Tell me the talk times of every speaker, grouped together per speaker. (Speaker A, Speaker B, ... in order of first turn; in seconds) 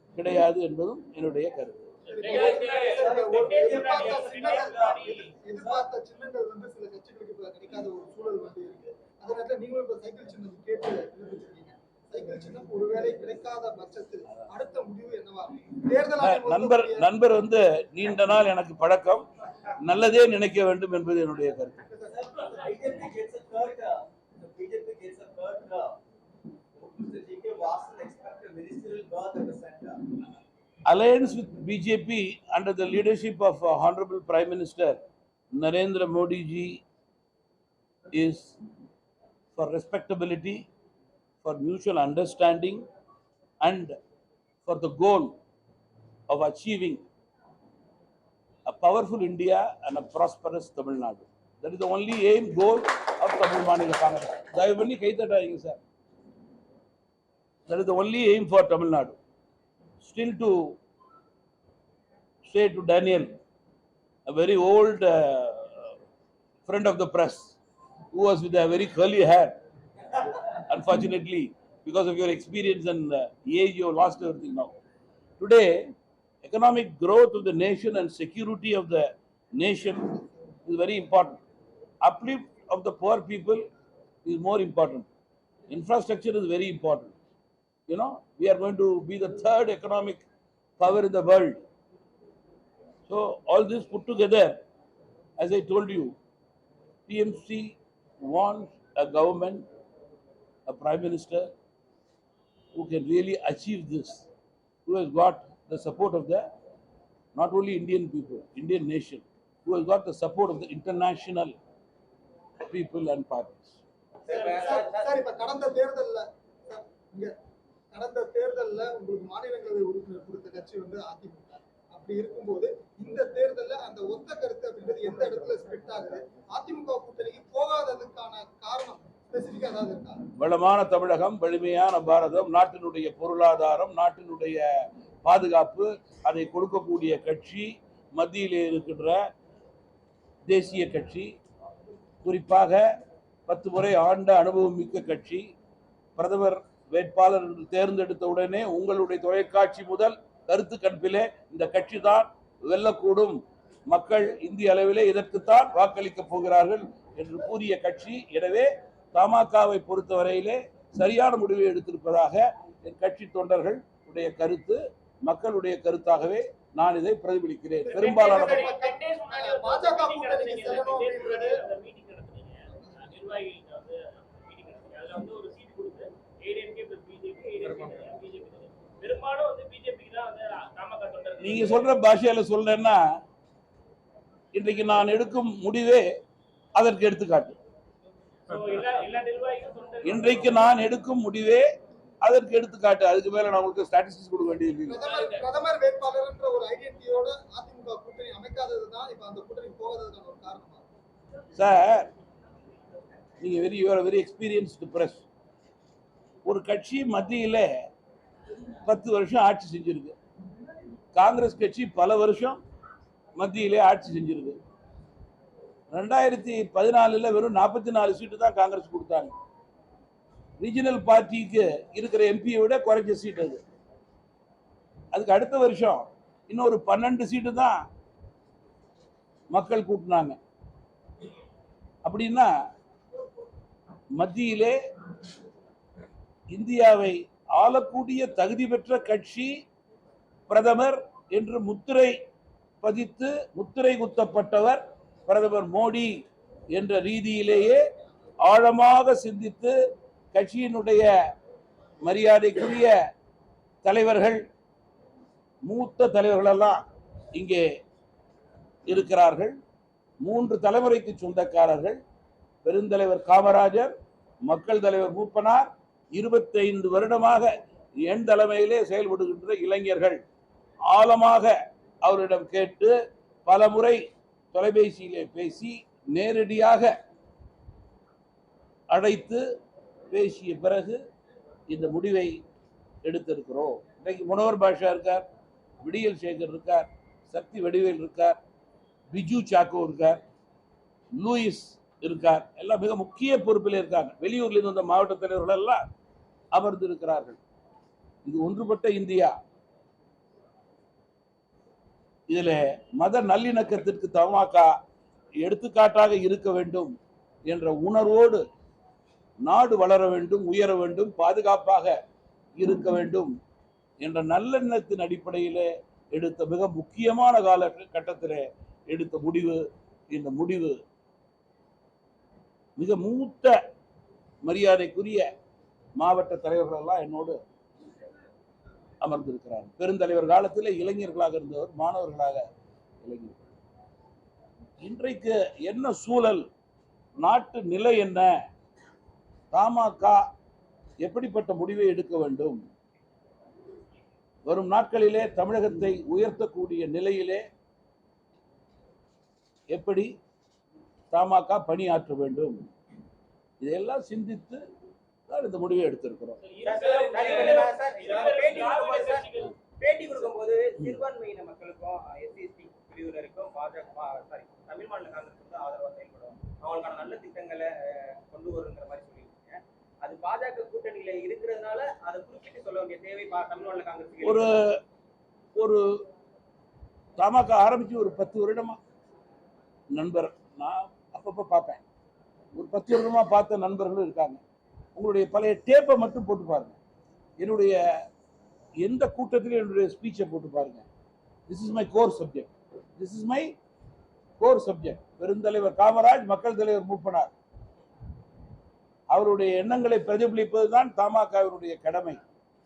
Speaker A: 0.1-1.9, 16.2-19.2, 19.8-21.8, 30.9-35.0, 35.5-36.8, 38.1-38.6, 39.5-40.6, 41.4-42.9, 43.6-44.0, 44.6-45.3, 46.3-47.0, 48.6-55.8, 57.7-59.1, 60.0-60.8, 62.5-63.4, 64.3-65.9, 66.7-67.5, 68.1-69.6, 70.5-74.7, 75.4-75.9, 76.4-81.4, 82.0-83.7, 84.2-85.0, 85.7-87.1, 87.9-90.2, 90.8-91.6, 93.1-94.6, 95.4-96.2, 97.1-99.6, 100.7-101.5, 102.7-104.3, 104.8-106.5, 107.3-111.5, 112.7-113.8, 130.4-134.7, 135.2-139.3, 140.4-141.3, 142.2-142.9, 143.5-145.5, 146.2-168.7, 181.4-183.1, 184.5-186.1, 186.8-187.6, 190.0-191.7, 192.2-195.0, 201.5-202.1, 203.4-205.2, 206.4-207.7, 208.8-210.1, 211.1-212.6, 213.4-214.6, 215.9-219.3, 220.6-223.6, 225.1-227.8, 229.5-230.4, 232.0-232.5, 234.1-234.8, 236.5-239.5, 240.5-242.2, 242.8-246.2, 246.7-247.8, 248.4-249.7, 250.3-251.1, 252.0-252.9, 253.8-254.4, 255.6-256.8, 257.3-257.7, 258.9-259.6, 260.2-262.0, 262.6-263.9, 264.4-267.5, 268.0-270.2, 270.9-276.9, 278.9-279.4, 280.1-281.0, 281.7-282.4, 283.0-285.2, 285.8-288.4, 289.1-290.2, 291.2-295.8, 296.5-297.4, 298.2-299.4, 302.3-304.7, 305.4-306.9, 307.5-308.4, 309.4-311.9, 312.6-313.3, 314.0-320.8, 322.8-323.6, 324.4-325.3, 326.0-327.4, 329.0-332.4, 333.0-333.4, 334.8-336.5, 337.2-338.4, 339.5-340.2, 341.0-342.6, 344.4-347.4, 349.7-350.1, 351.1-352.6, 353.6-354.6, 355.3-356.4, 374.2-374.8, 375.6-375.9, 377.2-378.8, 379.9-381.8, 382.5-384.4, 384.9-386.8, 387.4-387.8, 388.8-390.9, 391.5-393.5, 394.4-397.3, 399.1-402.2
Speaker B: 2.1-5.3, 167.9-181.9, 188.5-190.7, 356.4-359.5
Speaker C: 2.1-17.1, 21.9-22.6, 114.3-117.3, 117.9-130.2, 167.8-171.6, 194.9-200.8
Speaker D: 2.2-5.8, 22.1-26.0, 26.7-30.0, 195.0-195.3, 356.7-358.0
Speaker E: 114.2-115.1, 356.6-359.3, 359.8-374.5